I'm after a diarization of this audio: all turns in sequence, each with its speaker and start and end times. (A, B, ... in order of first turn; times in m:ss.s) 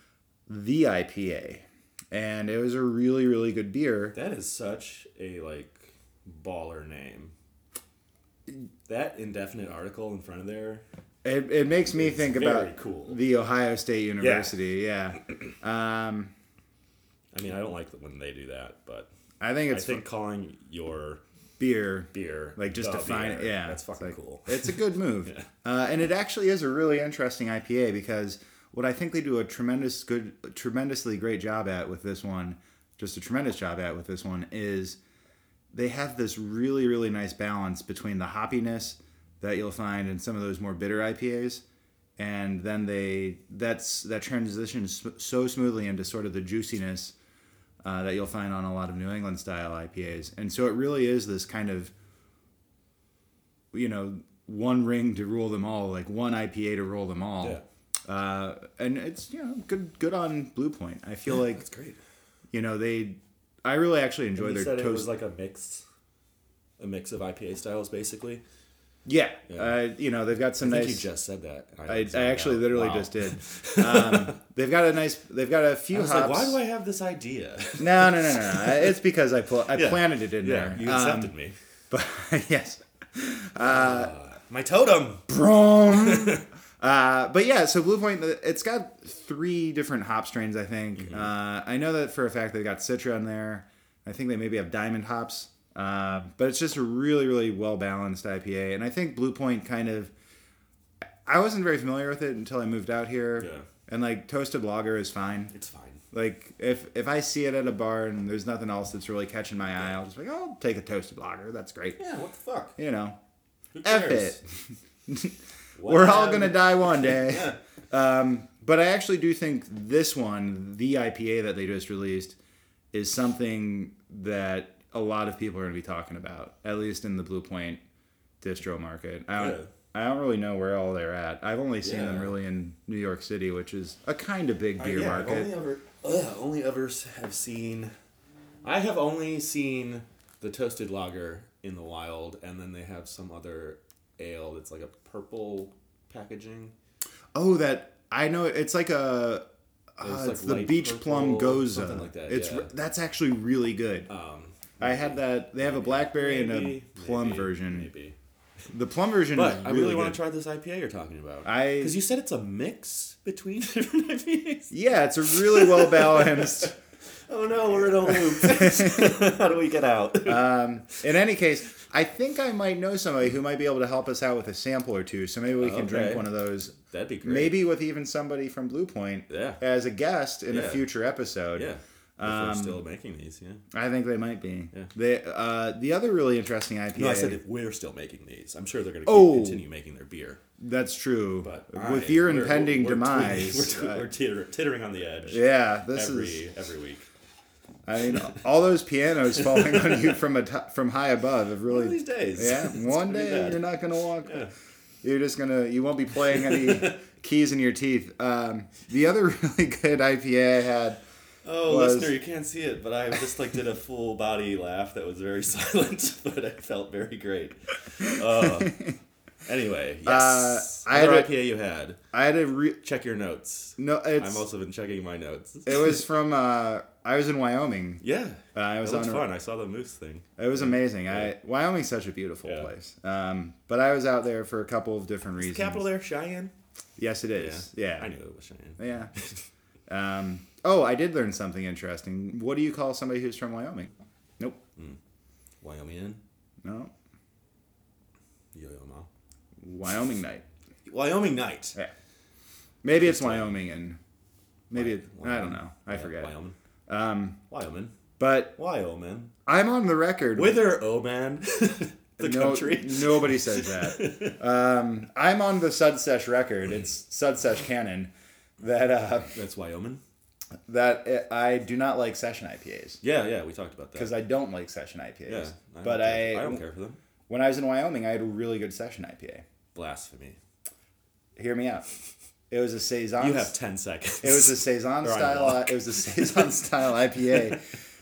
0:00.5-0:04.2 A
0:04.1-0:07.3 B
0:08.9-0:10.8 B
0:11.2-0:16.3 A
0:11.9-0:13.2 B
0:14.2-0:14.6 B
0:17.3-0:19.1 B
0:19.4-0:20.0 A
0:19.7-0:21.2 B
0:21.6-0:35.0 A
0:22.1-0:25.5 B
0:35.7-0:41.6 A
0:42.2-0:47.2 A
0:47.8-0:51.9 A
0:53.7-1:01.6 A
1:01.3-1:02.0 B
1:02.5-1:05.1 A
1:04.4-1:05.9 B
1:06.8-1:08.4 B
1:09.1-1:11.1 A
1:09.5-1:09.8 B
1:10.6-1:14.4 B
1:11.9-1:16.6 A
1:15.9-1:18.9 B
1:17.8-1:21.3 A
1:19.7-1:21.6 B
1:21.9-1:24.1 A
1:23.6-1:25.3 B
1:25.3-1:40.1 A
1:25.9-1:26.4 B
1:31.0-1:31.3 B
1:41.2-1:45.5 A
1:43.4-1:43.7 B
1:45.5-1:46.0 B
1:46.1-1:52.0 A
1:52.0-1:52.8 B
1:52.8-1:53.2 A
1:53.7-1:54.4 B
1:53.8-1:54.4 A
1:55.1-2:02.4 A
1:55.8-1:57.6 B
2:02.9-2:07.8 A
2:08.4-2:15.5 A
2:09.4-2:09.7 B
2:11.8-2:12.4 B
2:14.8-2:17.9 B
2:18.6-2:26.7 B
2:27.3-2:29.4 A
2:30.0-2:34.1 A
2:30.0-2:32.7 B
2:34.1-2:38.2 B
2:34.8-2:37.9 A
2:38.7-2:40.2 A
2:39.3-2:46.7 B
2:41.4-2:42.0 A
2:44.7-2:46.8 A
2:47.3-2:51.0 B
2:48.4-2:49.1 A
2:50.2-3:02.8 A
2:55.6-2:57.6 B
2:59.3-2:59.6 B
3:00.5-3:00.9 B
3:01.5-3:03.6 B
3:03.7-3:07.4 A
3:07.0-3:10.4 B
3:09.1-3:09.6 A
3:10.6-3:14.1 A
3:11.4-3:17.1 B
3:15.3-3:16.4 A
3:17.9-3:24.4 A
3:19.6-3:19.9 B
3:21.7-3:24.5 B
3:25.0-3:31.0 A
3:26.4-3:27.0 B
3:31.4-3:38.9 B
3:31.6-3:32.2 A
3:38.6-3:38.9 A
3:39.4-3:42.0 B
3:40.0-3:41.3 A
3:42.1-3:42.8 A
3:42.8-3:46.0 B
3:43.8-3:44.5 A
3:45.7-3:48.0 A
3:48.0-3:51.3 B
3:48.6-3:49.3 A
3:50.4-3:55.8 A
3:52.4-3:52.7 B
3:55.4-3:56.5 B
3:57.0-3:58.1 A
3:57.3-3:59.4 B
3:58.8-3:59.1 A
3:59.9-4:04.6 A
4:05.6-4:06.2 B
4:06.6-4:06.9 A
4:08.5-4:09.1 B
4:09.6-4:10.4 A
4:10.9-4:11.8 B
4:12.8-4:14.0 A
4:12.9-4:13.6 B
4:14.7-4:16.3 A
4:14.7-4:16.6 B
4:16.9-4:17.4 A
4:17.5-4:17.9 B
4:18.2-4:18.6 A
4:18.6-4:19.3 B
4:19.5-4:20.7 A
4:20.4-4:24.4 B
4:22.2-4:29.4 A
4:29.3-4:30.0 B
4:30.7-4:33.0 A
4:33.0-4:34.2 B
4:34.0-4:36.6 A
4:35.3-4:37.0 B
4:37.3-4:39.4 A
4:39.8-4:40.4 B
4:41.4-4:41.9 A
4:42.5-4:43.5 A
4:43.2-4:46.5 B
4:44.2-4:47.6 A